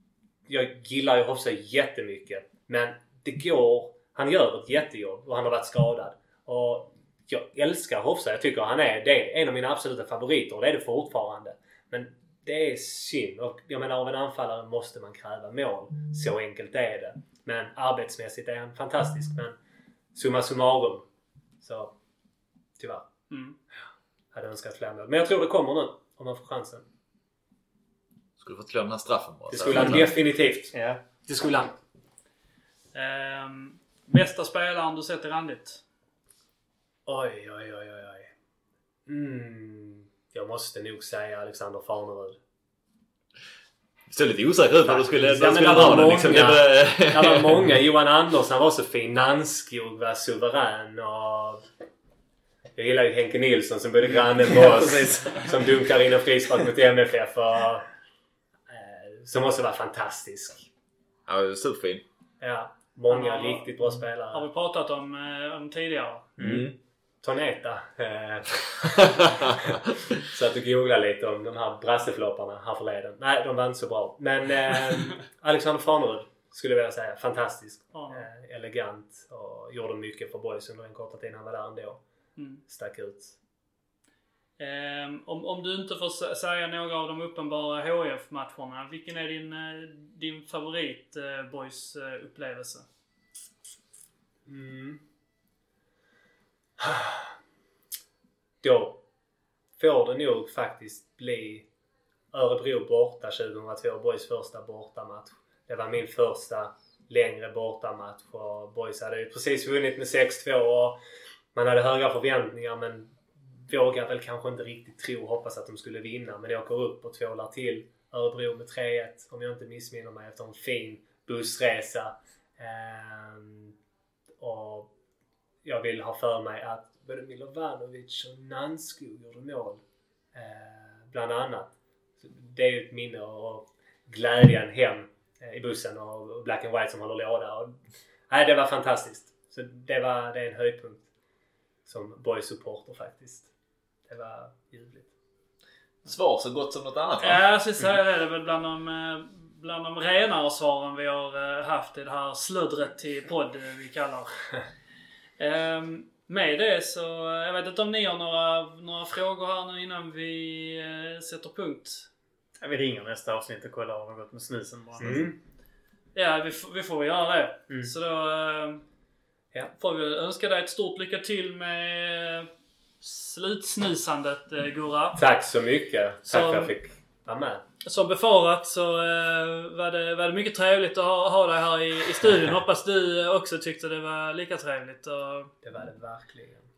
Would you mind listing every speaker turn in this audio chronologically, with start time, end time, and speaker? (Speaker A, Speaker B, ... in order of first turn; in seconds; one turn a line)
Speaker A: 0.5-19.5
Speaker A: 20.1-21.0
Speaker A: 21.6-21.9
Speaker A: 22.8-23.1
Speaker B: 23.3-23.6
Speaker A: 24.3-26.8
Speaker C: 28.4-30.1
Speaker A: 29.5-31.7
Speaker B: 32.9-35.8
Speaker A: 37.0-38.3
Speaker A: 39.1-42.4
Speaker C: 44.1-47.6
Speaker A: 44.8-51.6
Speaker A: 52.8-57.8
Speaker D: 54.4-55.5
Speaker A: 58.7-60.7
Speaker C: 61.3-62.0
Speaker A: 62.4-64.4
Speaker B: 63.1-66.3
Speaker C: 66.4-66.7
Speaker D: 66.4-66.7
Speaker A: 67.2-82.0
Speaker C: 69.2-69.7
Speaker B: 77.9-78.3
Speaker B: 82.4-82.6
Speaker A: 82.7-83.3
Speaker B: 84.6-92.8
Speaker A: 94.5-95.0
Speaker A: 96.8-97.3
Speaker A: 98.6-99.0
Speaker A: 99.8-101.7
Speaker A: 102.3-111.0
Speaker A: 111.5-123.7
Speaker A: 124.4-124.9
Speaker A: 125.6-129.8
Speaker A: 130.3-137.8
Speaker A: 138.3-141.0
Speaker A: 141.8-143.5
Speaker A: 144.1-145.1
Speaker C: 146.0-147.4
Speaker B: 147.2-154.5
Speaker B: 155.4-162.1
Speaker D: 162.6-165.2
Speaker A: 165.0-165.3
Speaker B: 166.1-168.8
Speaker B: 169.8-172.5
Speaker B: 173.0-175.2
Speaker A: 175.2-177.6
Speaker B: 176.3-176.7
Speaker B: 177.8-185.5
Speaker A: 185.6-186.6